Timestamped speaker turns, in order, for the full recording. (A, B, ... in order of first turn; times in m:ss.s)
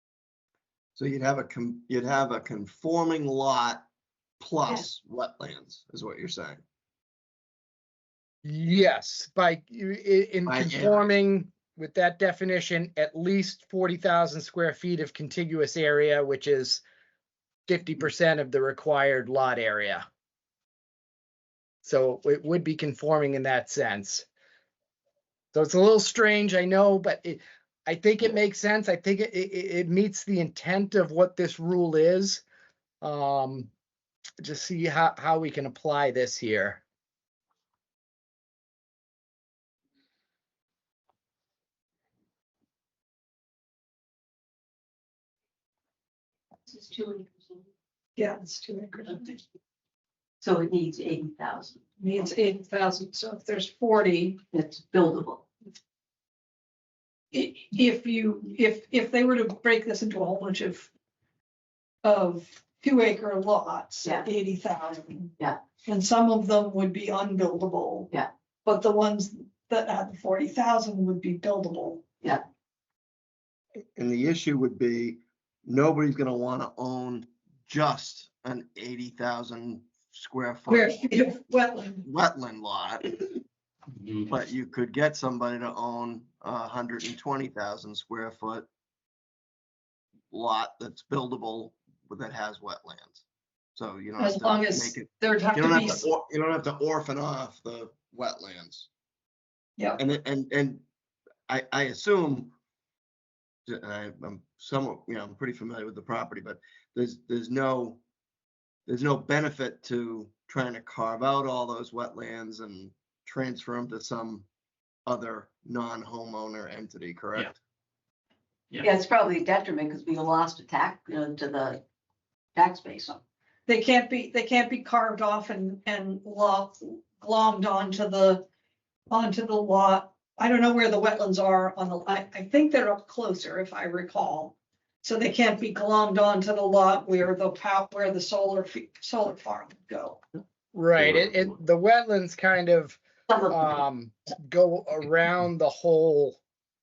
0:01.0-0:03.8 A
0:04.4-0:06.6 A
0:08.4-0:16.8 B
0:10.5-0:11.1 A
0:17.7-0:20.0 B
0:21.8-0:24.2 B
0:25.5-0:32.4 B
0:33.0-0:33.7 B
0:34.4-0:36.8 B
0:46.7-0:47.6 C
0:48.2-0:49.4 D
0:50.4-0:51.8 C
0:52.0-0:54.4 D
0:54.5-0:55.4 C
0:57.3-1:00.9 D
1:02.0-1:05.3 D
1:05.8-1:08.1 D
1:08.6-1:12.0 D
1:14.0-1:21.0 A
1:20.7-1:22.0 D
1:22.0-1:23.4 A
1:24.2-1:28.7 A
1:30.3-1:33.2 A
1:33.8-1:38.9 A
1:34.2-1:36.0 D
1:40.0-1:40.8 A
1:41.5-1:42.5 A
1:43.7-1:48.0 A
1:48.9-1:54.5 A
1:55.0-1:57.6 A
1:58.8-2:01.8 C
2:02.5-2:03.2 C
2:03.7-2:08.4 D
2:09.1-2:20.2 D
2:20.7-2:26.4 B
2:23.3-2:23.7 C